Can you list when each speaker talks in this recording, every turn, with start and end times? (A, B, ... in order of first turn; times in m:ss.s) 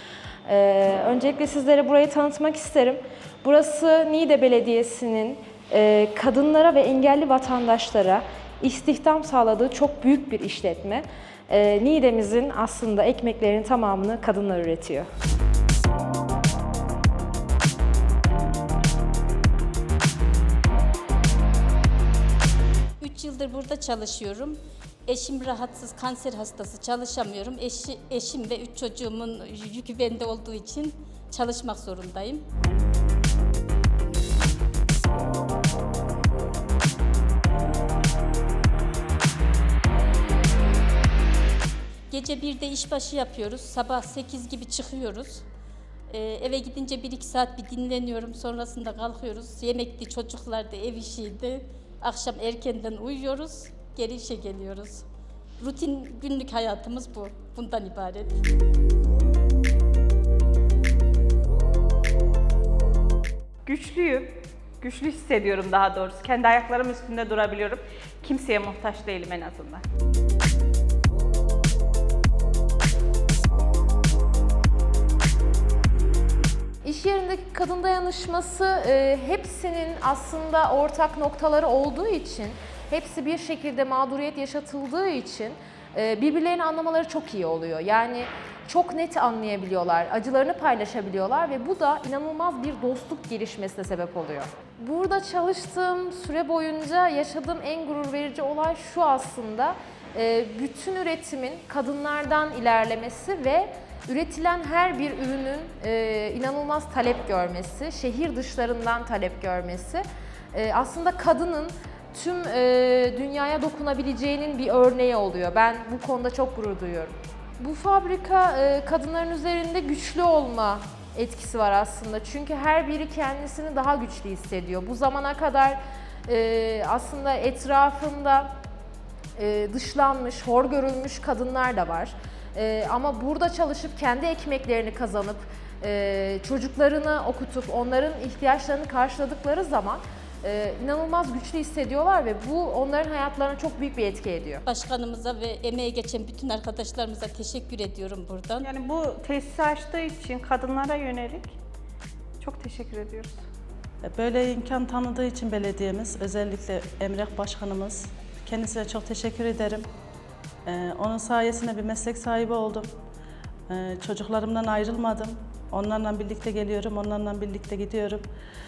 0:00.4-0:15.1 A
0:23.0-0:32.4 B
0:42.1-0:45.4 B
0:46.1-0:55.0 B
0:55.6-0:58.4 B
1:03.6-1:09.8 C
1:16.8-2:08.5 A
2:09.4-2:24.6 A
2:24.6-2:28.7 B
2:28.6-2:31.6 C
2:32.4-2:33.4 C
2:34.0-2:39.9 D
2:40.6-2:42.9 D
2:43.7-2:48.3 D